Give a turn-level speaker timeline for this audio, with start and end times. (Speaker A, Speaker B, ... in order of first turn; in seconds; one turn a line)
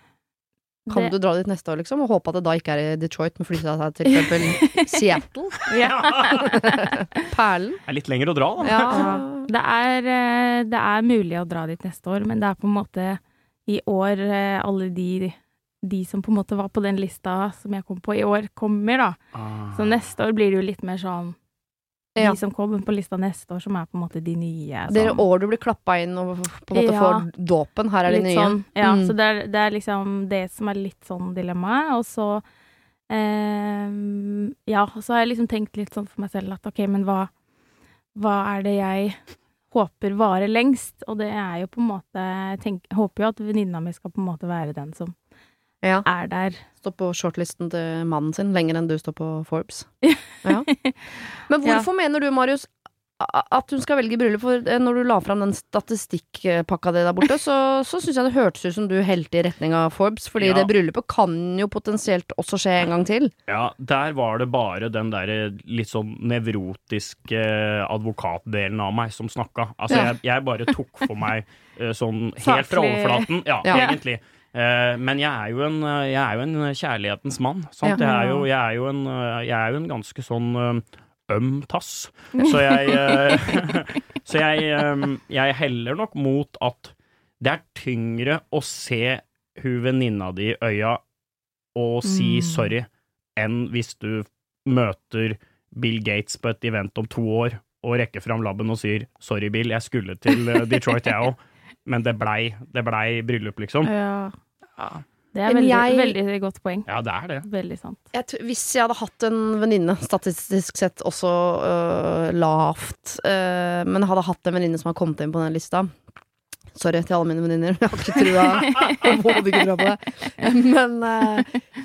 Speaker A: 0.9-1.1
Speaker B: 0.9-5.7
Speaker A: 4.2-4.9
Speaker A: 5.7-6.9
Speaker C: 5.8-6.6
Speaker B: 6.5-7.8
Speaker C: 7.9-9.1
Speaker B: 8.6-9.5
Speaker A: 8.9-19.2
Speaker C: 19.3-19.8
Speaker A: 19.7-21.4
Speaker A: 22.2-25.2
Speaker B: 24.9-29.1
Speaker A: 26.7-27.3
Speaker A: 28.1-32.4
Speaker A: 33.1-37.3
Speaker A: 38.1-45.1
Speaker B: 45.8-46.1
Speaker A: 46.0-46.6
Speaker B: 46.8-49.9
Speaker A: 50.0-51.0
Speaker B: 50.4-50.7
Speaker B: 51.5-63.3
Speaker C: 60.4-60.7
Speaker C: 63.5-91.0
Speaker A: 72.4-74.0
Speaker A: 77.9-78.5
Speaker A: 82.3-83.3
Speaker C: 91.8-103.9
Speaker A: 92.0-92.7
Speaker A: 103.8-104.3
Speaker C: 104.8-105.0
Speaker A: 105.3-106.9
Speaker B: 105.5-106.2
Speaker C: 106.9-107.5
Speaker A: 107.4-108.0
Speaker B: 108.1-115.9
Speaker B: 116.7-121.6